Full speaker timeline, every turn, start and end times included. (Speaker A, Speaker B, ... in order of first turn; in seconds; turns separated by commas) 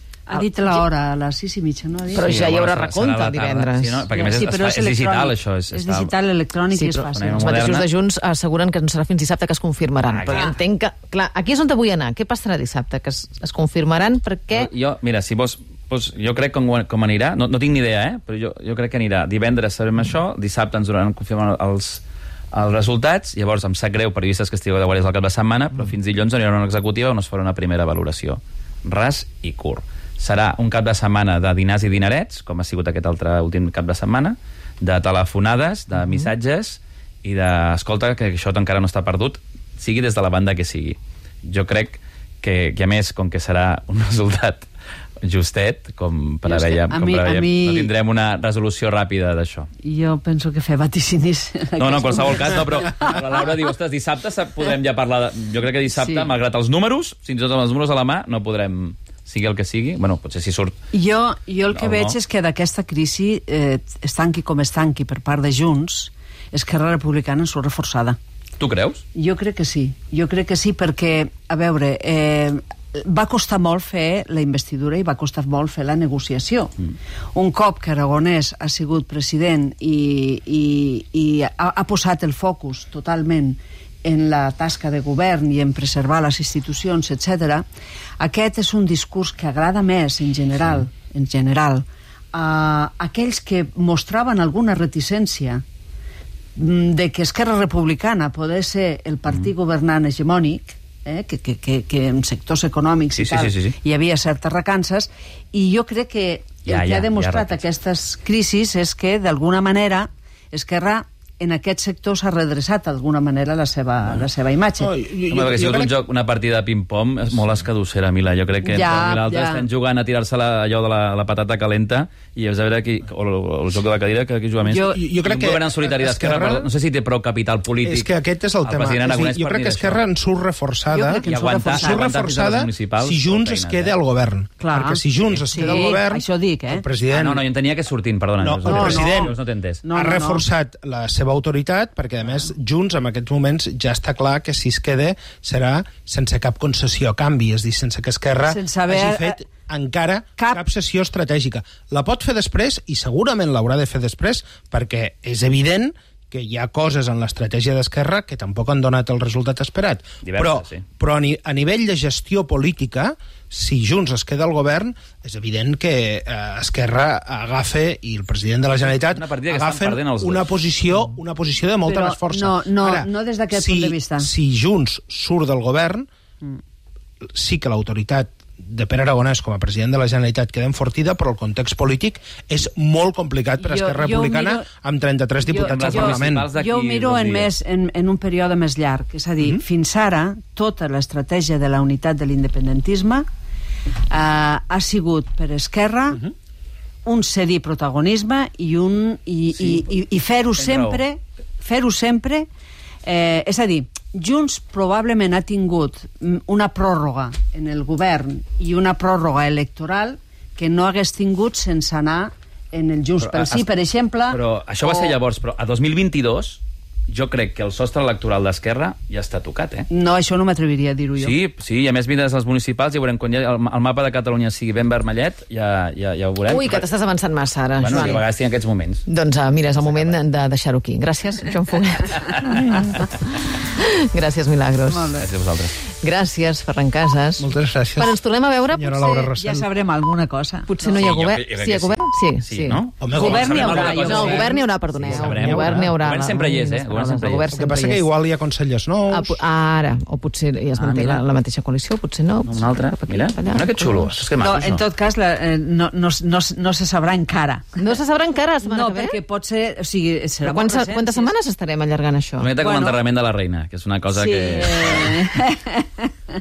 Speaker A: 0.3-2.5, Speaker B: 0.4-0.8, Speaker B: 2.1-4.0, Speaker C: 2.2-6.1, Speaker A: 4.1-7.6, Speaker B: 6.8-14.7, Speaker C: 7.1-7.9, Speaker C: 10.1-10.5, Speaker C: 14.5-44.7, Speaker C: 45.2-49.7, Speaker A: 46.5-47.9, Speaker A: 49.8-53.4, Speaker C: 51.8-60.8, Speaker A: 55.9-56.3, Speaker A: 60.9-68.2, Speaker C: 61.7-62.2, Speaker C: 68.6-69.0, Speaker A: 69.2-76.8, Speaker A: 77.3-87.7, Speaker A: 88.2-95.6, Speaker A: 96.6-114.9, Speaker C: 103.2-103.8, Speaker C: 106.7-107.6, Speaker D: 114.8-115.9, Speaker C: 115.3-128.1, Speaker A: 118.6-119.7, Speaker A: 124.7-125.0, Speaker D: 124.9-126.7, Speaker D: 127.8-137.4, Speaker C: 128.6-130.0, Speaker A: 130.9-132.1, Speaker C: 131.2-133.9, Speaker A: 134.6-136.8, Speaker C: 135.3-135.8, Speaker C: 137.1-139.8, Speaker D: 138.4-139.3, Speaker A: 138.7-140.4, Speaker D: 139.9-176.1, Speaker A: 148.4-149.4, Speaker C: 160.2-160.8, Speaker C: 168.8-170.5, Speaker A: 171.8-174.3, Speaker D: 177.3-186.5, Speaker A: 183.6-184.7, Speaker A: 185.4-193.2, Speaker C: 185.6-187.5, Speaker A: 194.1-196.2, Speaker A: 197.1-202.5, Speaker C: 200.5-201.0, Speaker A: 203.0-215.2, Speaker C: 213.2-213.7, Speaker C: 214.3-219.9, Speaker A: 219.9-221.4, Speaker C: 221.2-226.9, Speaker B: 226.5-228.2, Speaker C: 227.8-229.1, Speaker B: 229.1-233.0, Speaker C: 229.8-230.2, Speaker B: 233.7-235.1, Speaker A: 234.9-235.3, Speaker C: 235.2-235.8, Speaker B: 236.0-239.3, Speaker D: 237.4-239.7, Speaker A: 239.4-240.9, Speaker B: 240.7-242.8, Speaker C: 240.9-247.5, Speaker D: 243.0-243.8, Speaker A: 243.1-244.6, Speaker B: 243.5-248.1, Speaker D: 245.0-245.9, Speaker D: 247.5-249.4, Speaker B: 249.1-254.2, Speaker C: 250.7-251.2, Speaker C: 252.4-254.8, Speaker A: 254.4-257.8, Speaker B: 257.8-259.2, Speaker A: 258.6-261.4, Speaker B: 260.4-262.5, Speaker C: 262.4-265.3, Speaker A: 262.6-263.0, Speaker A: 264.1-266.1